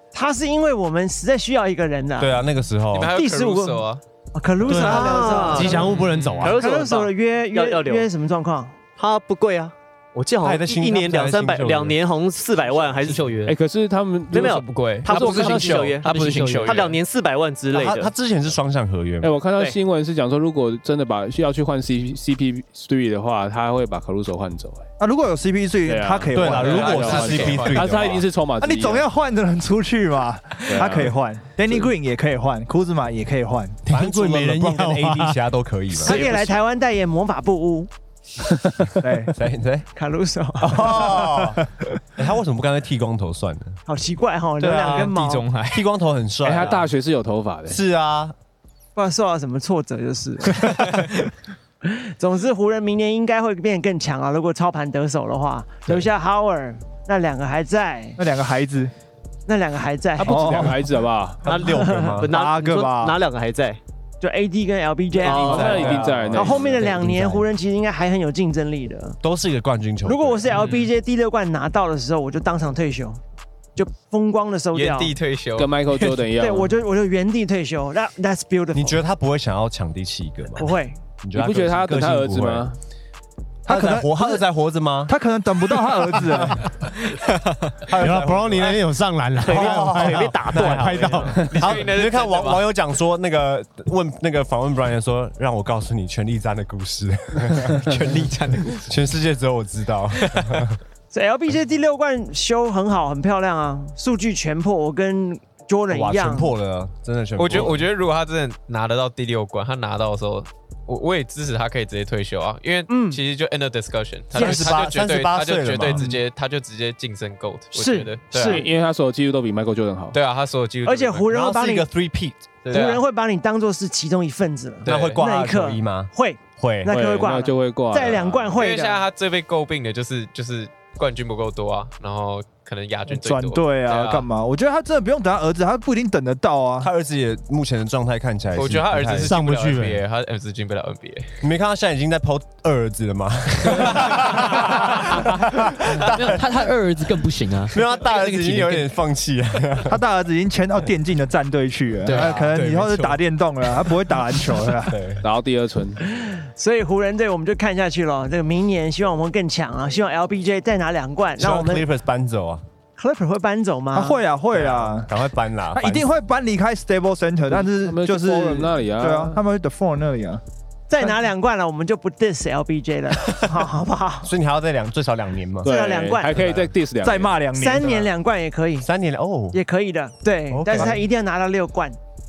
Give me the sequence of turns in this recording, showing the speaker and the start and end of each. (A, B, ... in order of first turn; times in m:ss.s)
0:00.1-0:02.4 A
0:02.2-0:03.1 B
0:02.9-0:04.0 C
0:03.1-0:05.9 A
0:04.6-0:06.6 D
0:04.7-0:08.1 E
0:06.4-0:08.7 A
0:09.0-0:13.4 E
0:10.4-0:12.0 B
0:12.9-0:13.6 F
0:13.4-0:15.9 G
0:14.3-0:18.1 E
0:14.6-0:16.9 H
0:15.1-0:16.9 F
0:17.7-0:19.4 B
0:19.2-0:24.8 G
0:25.0-0:27.4 I
0:25.8-0:29.0 G
0:26.3-0:28.2 B
0:26.5-0:28.2 C
0:28.6-0:33.8 I
0:30.7-0:31.1 G
0:33.8-0:35.4 D
0:33.9-0:36.4 B
0:36.0-0:37.9 A
0:39.0-0:39.3 I
0:39.3-0:39.9 B
0:39.9-0:41.2 A
0:40.6-0:43.8 B
0:43.9-0:45.4 A
0:44.6-0:45.1 B
0:44.6-0:45.9 H
0:45.7-0:46.9 B
0:46.4-0:47.8 G
0:47.7-0:48.3 B
0:49.0-0:50.9 A
0:51.8-0:58.2 A
0:58.2-0:58.9 I
0:59.5-1:00.7 A
1:00.2-1:01.4 G
1:00.2-1:00.9 I
1:01.4-1:02.3 B
1:01.5-1:03.8 E
1:01.6-1:02.2 A
1:02.2-1:03.2 I
1:04.2-1:09.2 A
1:05.2-1:07.1 G
1:05.3-1:05.9 E
1:05.6-1:06.5 B
1:05.8-1:06.1 I
1:06.8-1:07.4 F
1:09.2-1:10.5 B
1:10.0-1:13.2 A
1:10.5-1:10.8 C
1:13.8-1:15.1 A
1:14.7-1:15.7 C
1:15.6-1:16.7 G
1:16.3-1:19.0 A
1:18.7-1:22.7 B
1:20.6-1:21.0 A
1:21.3-1:22.8 G
1:23.6-1:24.4 I
1:23.7-1:25.1 B
1:25.1-1:26.8 I
1:27.8-1:28.8 B
1:27.9-1:31.5 D
1:29.4-1:31.5 E
1:29.4-1:40.8 B
1:31.4-1:32.7 C
1:37.9-1:38.8 H
1:41.1-1:46.5 A
1:45.9-1:47.9 B
1:47.4-1:58.7 C
1:52.9-1:53.2 A
1:54.3-1:56.1 B
1:54.3-1:54.8 A
1:57.7-1:58.7 A
1:58.4-2:00.2 G
2:00.1-2:01.3 C
2:00.8-2:01.9 A
2:01.3-2:02.8 B
2:02.7-2:03.0 C
2:02.7-2:09.0 A
2:04.8-2:05.2 C
2:04.8-2:06.9 B
2:06.9-2:08.6 G
2:08.6-2:14.3 C
2:13.1-2:16.9 I
2:16.8-2:19.3 B
2:18.5-2:21.4 C
2:19.2-2:20.0 D
2:21.4-2:26.4 B
2:26.0-2:28.9 F
2:27.7-2:30.0 B
2:29.8-2:35.0 I
2:32.0-2:32.4 F
2:32.0-2:35.2 B
2:35.2-2:36.0 G
2:36.1-2:41.9 A
2:41.4-2:42.6 B
2:43.0-2:44.2 A
2:43.9-2:45.1 I
2:44.5-2:46.1 B
2:45.7-2:50.4 I
2:47.5-2:49.4 G
2:50.9-2:54.3 A
2:54.2-2:55.7 B
2:55.6-2:57.4 G
2:55.6-2:56.4 A
2:56.3-2:56.7 B
2:57.0-2:58.1 I
2:57.5-2:58.9 A
2:58.8-2:59.6 B
2:59.5-3:02.0 A
3:00.5-3:01.0 B